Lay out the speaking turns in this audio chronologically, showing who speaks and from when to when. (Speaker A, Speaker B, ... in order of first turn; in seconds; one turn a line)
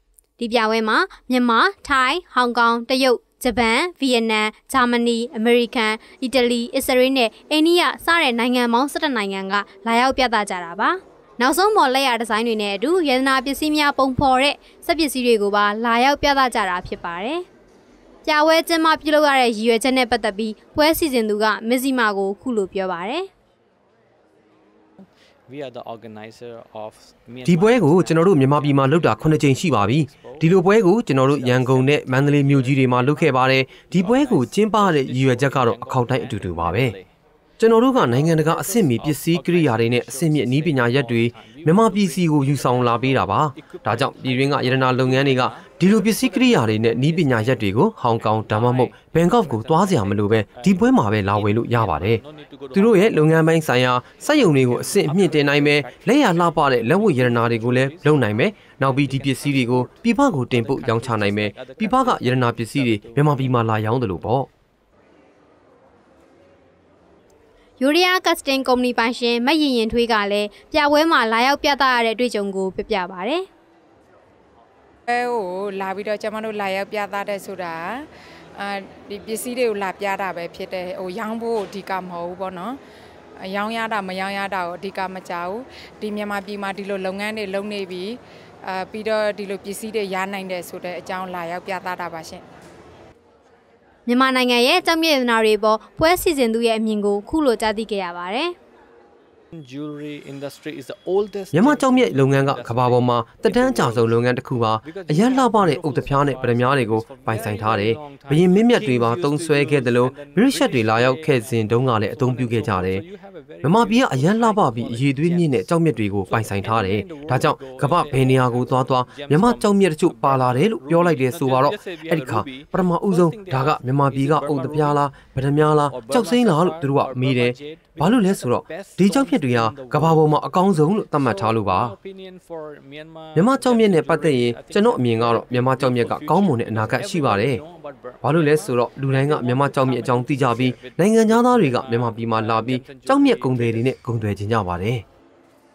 Speaker A: 0.4-17.4
Speaker A: 18.2-23.3
Speaker B: 25.5-30.6
Speaker C: 27.4-37.0
Speaker B: 31.3-37.1
Speaker C: 37.6-52.2
Speaker B: 38.0-47.6
Speaker B: 48.2-53.5
Speaker C: 52.7-64.5
Speaker B: 54.2-63.6
Speaker A: 67.8-73.5
Speaker D: 75.1-82.8
Speaker D: 83.4-92.4
Speaker A: 94.1-98.5
Speaker B: 99.6-104.2
Speaker C: 101.5-113.0
Speaker B: 104.8-125.0
Speaker C: 113.6-132.0
Speaker B: 125.9-143.9
Speaker C: 133.3-137.6
Speaker C: 138.2-145.0